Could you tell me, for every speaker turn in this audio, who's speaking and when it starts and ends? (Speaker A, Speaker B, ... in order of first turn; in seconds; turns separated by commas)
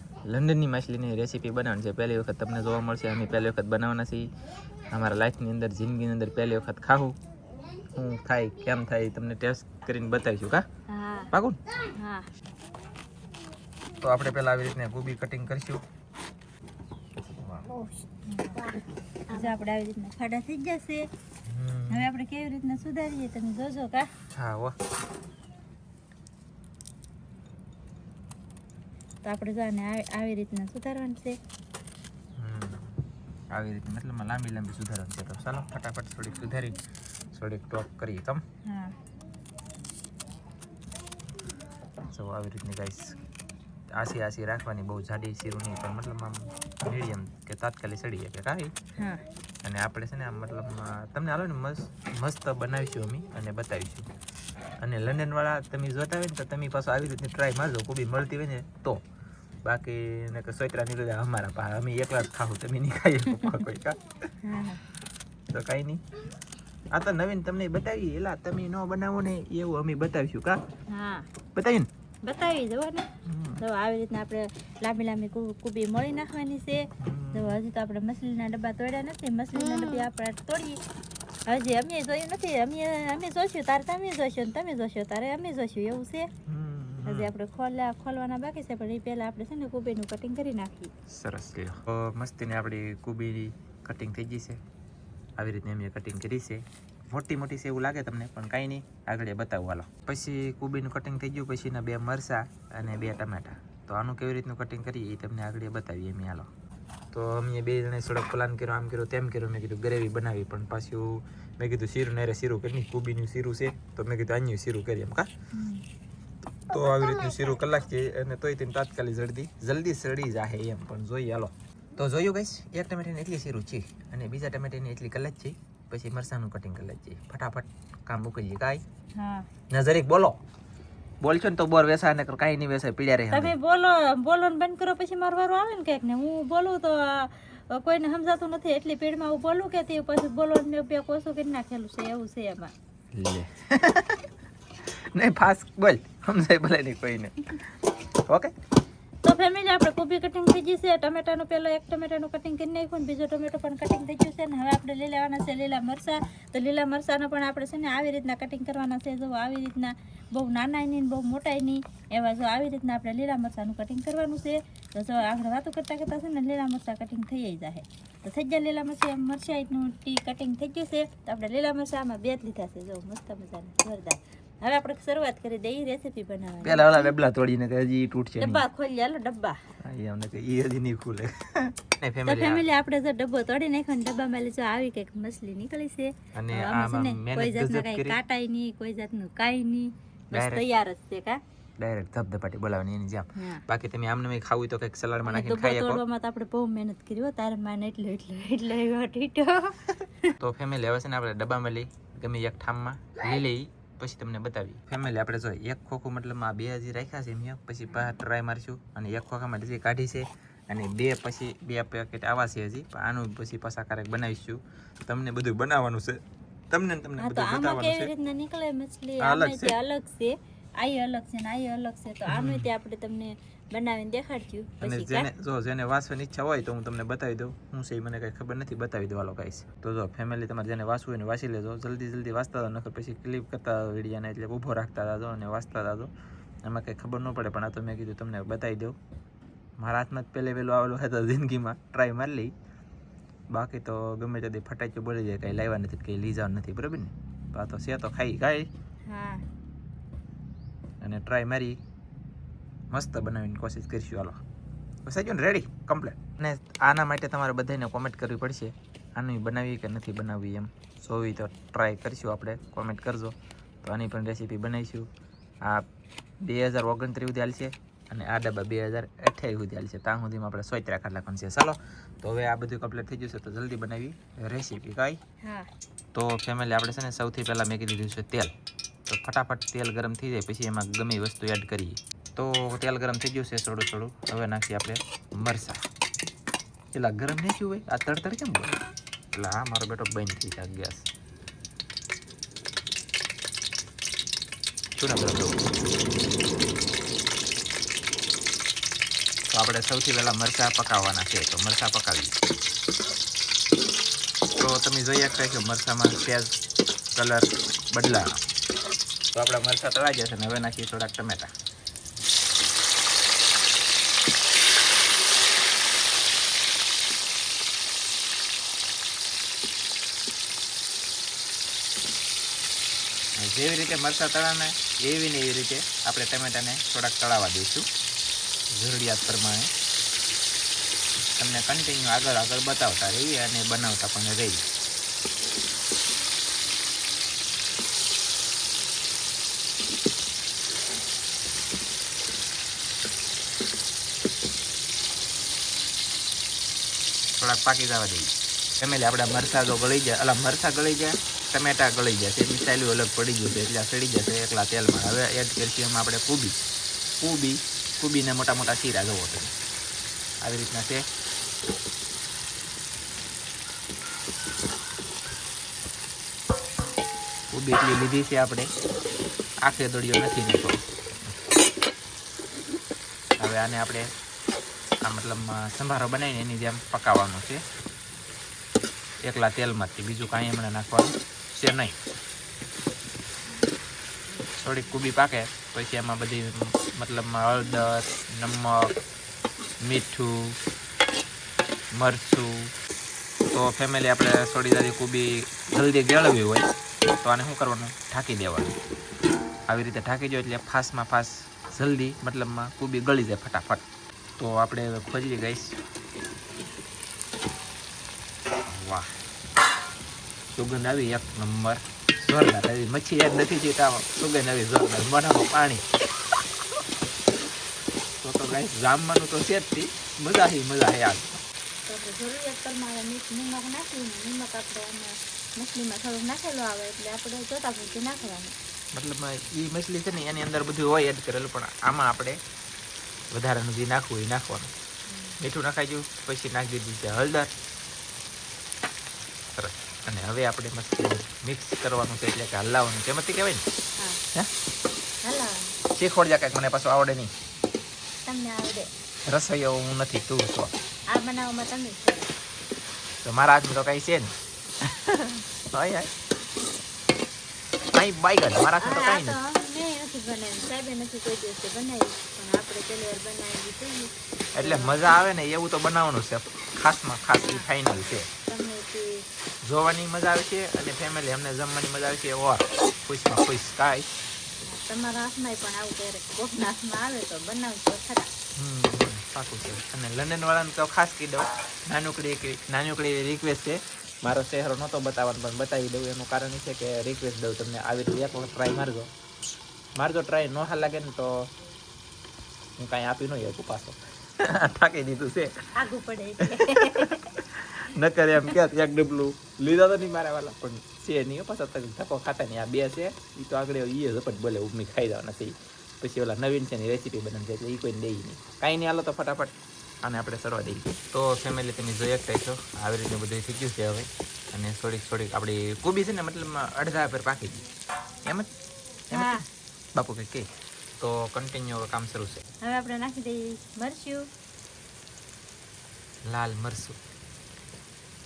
Speaker A: 0.3-4.3, Speaker A: 4.9-7.2, Speaker A: 7.9-10.7, Speaker B: 10.9-11.3, Speaker A: 11.3-11.6, Speaker B: 11.9-12.3, Speaker A: 14.0-15.8, Speaker A: 17.4-17.7, Speaker B: 18.2-21.1, Speaker A: 21.4-22.1, Speaker B: 21.9-24.1, Speaker A: 24.3-24.8, Speaker B: 29.2-31.4, Speaker A: 32.4-33.0, Speaker A: 33.5-36.8, Speaker A: 37.3-38.4, Speaker B: 38.6-38.9, Speaker A: 42.1-43.2, Speaker A: 43.9-48.7, Speaker A: 49.6-54.1, Speaker A: 54.8-59.0, Speaker A: 59.6-64.0, Speaker B: 64.4-64.8, Speaker A: 65.5-66.0, Speaker A: 66.9-70.6, Speaker B: 70.9-71.3, Speaker A: 71.5-71.9, Speaker B: 72.2-73.1, Speaker A: 73.2-73.6, Speaker B: 73.6-80.8, Speaker A: 77.0-77.6, Speaker B: 81.5-86.3, Speaker A: 86.5-87.3, Speaker B: 87.0-90.9, Speaker A: 91.1-94.6, Speaker A: 95.4-106.5, Speaker A: 107.1-115.3, Speaker B: 115.5-115.8, Speaker A: 116.7-128.8, Speaker B: 129.1-129.5, Speaker A: 129.7-130.4, Speaker A: 131.2-133.5, Speaker B: 133.3-142.7, Speaker A: 143.1-144.2, Speaker A: 144.9-147.7, Speaker A: 148.2-148.5, Speaker B: 149.2-177.1, Speaker A: 176.6-178.6, Speaker B: 178.4-179.6, Speaker A: 179.8-182.6, Speaker B: 182.2-191.4, Speaker A: 186.3-188.2, Speaker A: 190.3-190.6, Speaker A: 191.8-196.0, Speaker B: 193.3-193.6, Speaker B: 195.3-200.3, Speaker A: 200.4-218.1, Speaker B: 217.2-225.3, Speaker A: 219.2-219.8, Speaker A: 222.3-222.7, Speaker A: 224.8-236.1, Speaker A: 236.6-239.0, Speaker A: 239.8-242.5, Speaker A: 243.5-248.7, Speaker B: 249.1-249.4, Speaker A: 251.0-251.8, Speaker A: 252.9-254.4, Speaker A: 255.0-265.1, Speaker A: 266.4-275.2, Speaker B: 275.4-275.7, Speaker A: 276.1-278.5, Speaker A: 279.1-285.8, Speaker A: 286.9-291.1, Speaker A: 294.9-295.6, Speaker A: 299.5-302.4, Speaker A: 304.6-306.6, Speaker A: 307.1-308.4, Speaker A: 309.3-311.5, Speaker A: 323.4-327.9, Speaker A: 328.7-329.7, Speaker A: 331.3-334.6, Speaker A: 347.4-356.6, Speaker A: 357.2-359.5, Speaker A: 360.4-361.0, Speaker A: 367.5-368.7, Speaker A: 369.6-371.3, Speaker A: 373.4-374.1, Speaker A: 375.0-377.6, Speaker A: 379.2-382.0, Speaker A: 384.5-388.9, Speaker A: 389.8-390.6, Speaker A: 391.9-392.7, Speaker A: 393.5-396.7, Speaker A: 397.2-398.8, Speaker A: 399.7-403.8, Speaker A: 404.4-405.8, Speaker A: 408.6-409.1, Speaker A: 410.5-415.8, Speaker A: 418.2-421.4, Speaker B: 421.9-428.5, Speaker A: 428.9-432.4, Speaker A: 433.3-434.7, Speaker B: 435.1-435.4, Speaker A: 435.4-437.5, Speaker A: 439.5-443.6, Speaker B: 444.0-444.2, Speaker B: 445.2-445.7, Speaker A: 445.9-447.3, Speaker B: 448.2-448.9, Speaker A: 449.2-450.7, Speaker B: 451.1-452.3, Speaker A: 453.2-456.1, Speaker A: 457.9-459.4, Speaker B: 458.8-465.0, Speaker A: 464.5-468.3, Speaker B: 467.3-469.2, Speaker A: 469.6-474.2, Speaker B: 474.6-478.3, Speaker A: 478.6-489.1, Speaker A: 489.9-491.5, Speaker A: 492.8-495.7, Speaker B: 495.7-497.2, Speaker A: 496.4-517.6, Speaker A: 518.2-518.5, Speaker A: 519.1-519.4, Speaker B: 519.1-519.4, Speaker A: 519.9-522.4, Speaker B: 522.6-524.3, Speaker A: 526.2-527.0